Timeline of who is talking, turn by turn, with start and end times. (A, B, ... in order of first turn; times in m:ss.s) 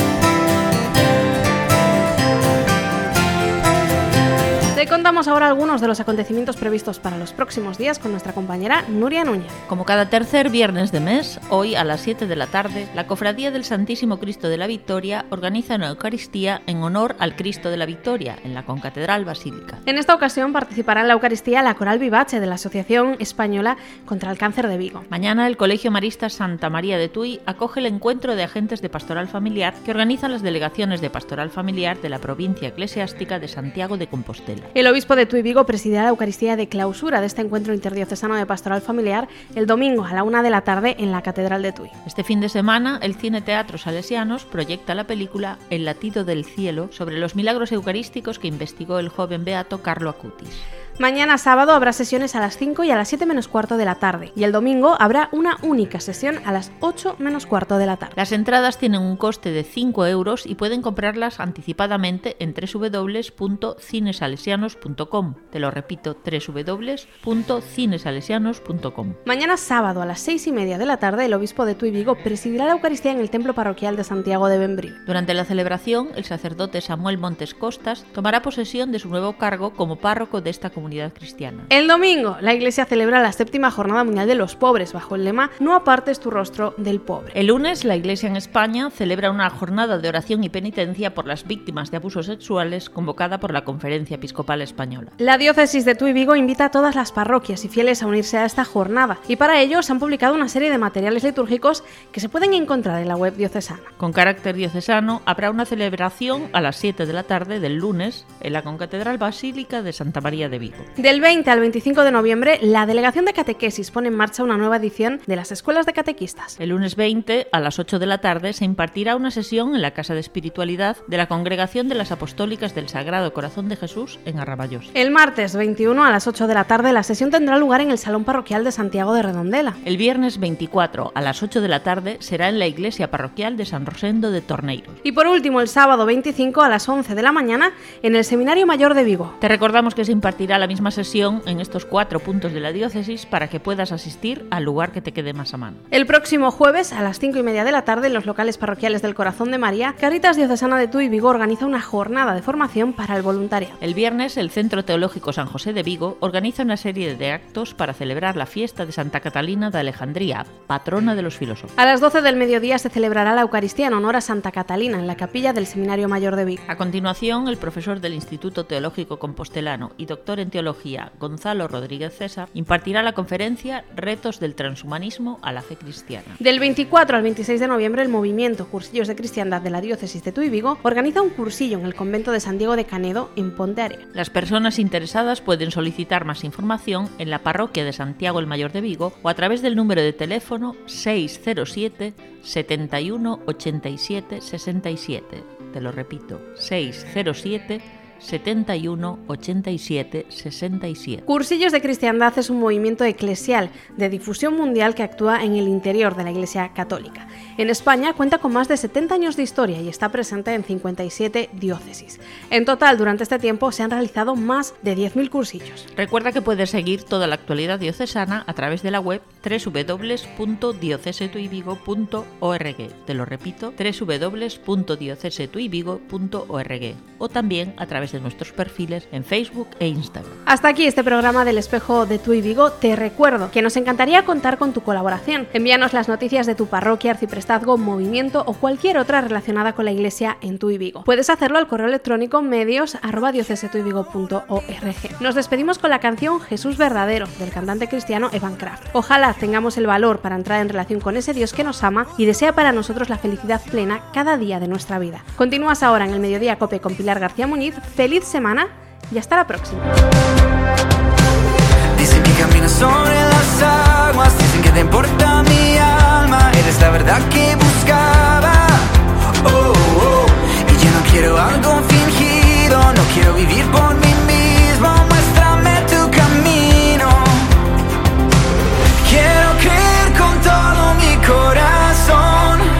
0:04.7-0:09.6 A
0:09.7-0:19.8 B
0:19.9-0:25.1 A
0:25.1-0:34.7 B
0:34.8-0:42.0 A
0:42.1-0:50.6 B
0:51.0-0:58.2 A
0:58.2-1:09.2 B
1:09.3-1:15.0 A
1:15.1-1:21.7 B
1:21.7-1:27.3 A
1:27.4-1:35.1 B
1:35.2-1:43.9 A
1:44.0-1:50.9 B
1:51.0-1:56.6 A
1:56.6-2:04.9 B
2:05.0-2:09.8 A
2:09.8-2:15.0 B
2:15.0-2:19.4 A
2:19.4-2:25.8 B
2:25.9-2:33.8 A
2:33.8-2:41.7 B
2:41.8-2:46.6 A
2:46.7-2:56.4 B
2:56.4-3:04.1 A
3:04.1-3:21.2 B
3:21.3-3:35.9 A
3:36.0-3:50.4 B
3:50.5-4:19.9 A
4:22.0-4:28.5 C
4:29.5-4:30.1 C
4:30.7-4:37.1 C
4:39.0-4:42.6 C